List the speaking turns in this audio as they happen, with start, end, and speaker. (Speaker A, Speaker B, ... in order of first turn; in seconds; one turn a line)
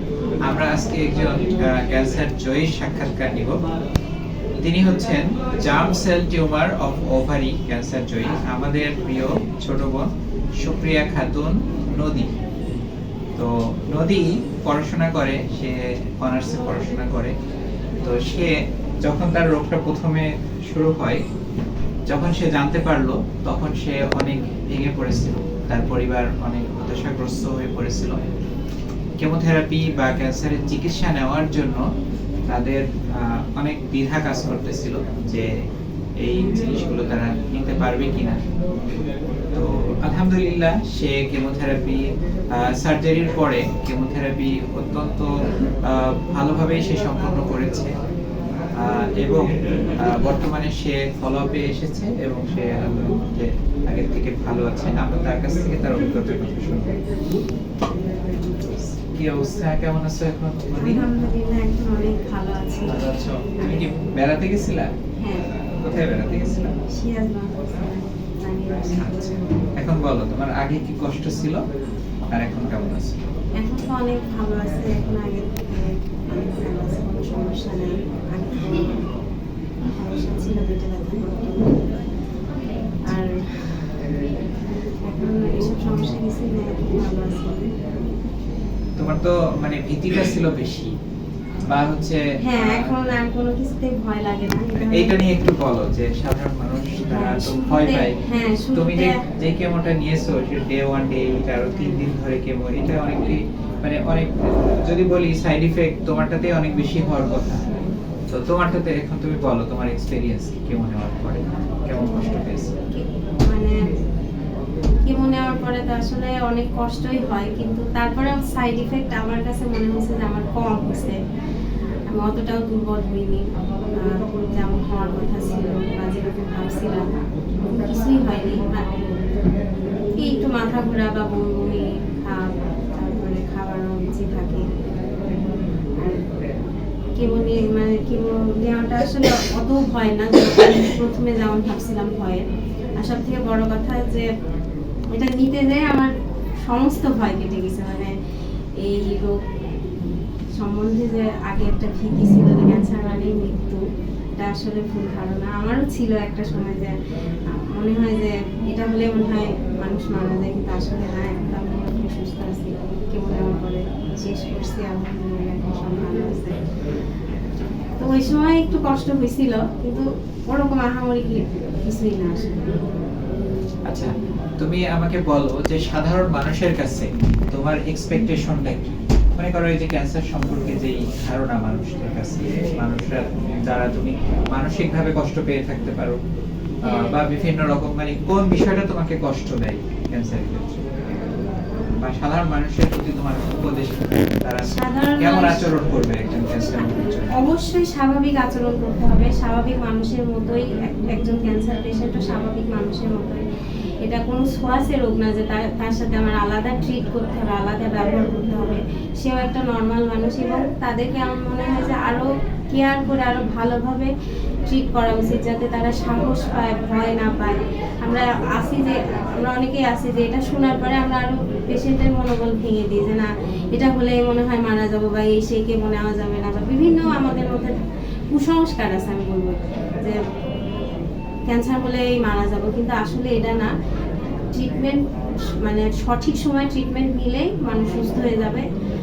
Speaker A: 0.5-3.6
Speaker A: 4.6-10.1
Speaker A: 10.6-12.3
Speaker A: 13.4-17.3
Speaker A: 18.0-21.2
Speaker A: 22.1-28.2
Speaker A: 29.2-31.8
Speaker A: 32.5-35.5
Speaker A: 36.2-38.4
Speaker A: 39.5-45.3
Speaker A: 45.8-47.9
Speaker A: 48.8-57.0
Speaker A: 58.9-61.0
Speaker B: 60.7-63.0
Speaker A: 62.9-64.9
Speaker B: 65.2-65.4
Speaker A: 65.8-66.7
Speaker B: 66.9-69.6
Speaker A: 69.8-71.6
Speaker A: 72.3-73.2
Speaker B: 73.6-79.0
Speaker B: 79.9-81.8
Speaker B: 83.1-84.0
Speaker B: 85.0-87.7
Speaker A: 89.0-90.9
Speaker A: 91.7-93.1
Speaker B: 92.4-95.2
Speaker A: 94.8-98.1
Speaker B: 97.1-99.1
Speaker A: 98.7-107.7
Speaker A: 108.3-112.8
Speaker B: 111.9-112.3
Speaker B: 112.9-113.8
Speaker B: 115.0-121.2
Speaker B: 122.1-123.4
Speaker B: 124.0-127.1
Speaker B: 127.6-128.9
Speaker B: 130.2-134.6
Speaker B: 137.2-142.4
Speaker B: 143.0-144.3
Speaker B: 145.1-146.1
Speaker B: 146.6-148.1
Speaker B: 148.8-149.3
Speaker B: 150.6-153.8
Speaker B: 154.4-156.9
Speaker B: 157.5-166.6
Speaker B: 168.0-172.7
Speaker A: 173.9-186.2
Speaker A: 186.8-190.8
Speaker B: 186.8-187.2
Speaker A: 192.0-197.3
Speaker B: 194.6-195.7
Speaker B: 196.7-203.4
Speaker B: 204.0-214.1
Speaker B: 214.7-227.7
Speaker B: 228.3-230.2
Speaker B: 231.5-233.7
Speaker B: 234.5-235.1
Speaker B: 235.6-238.6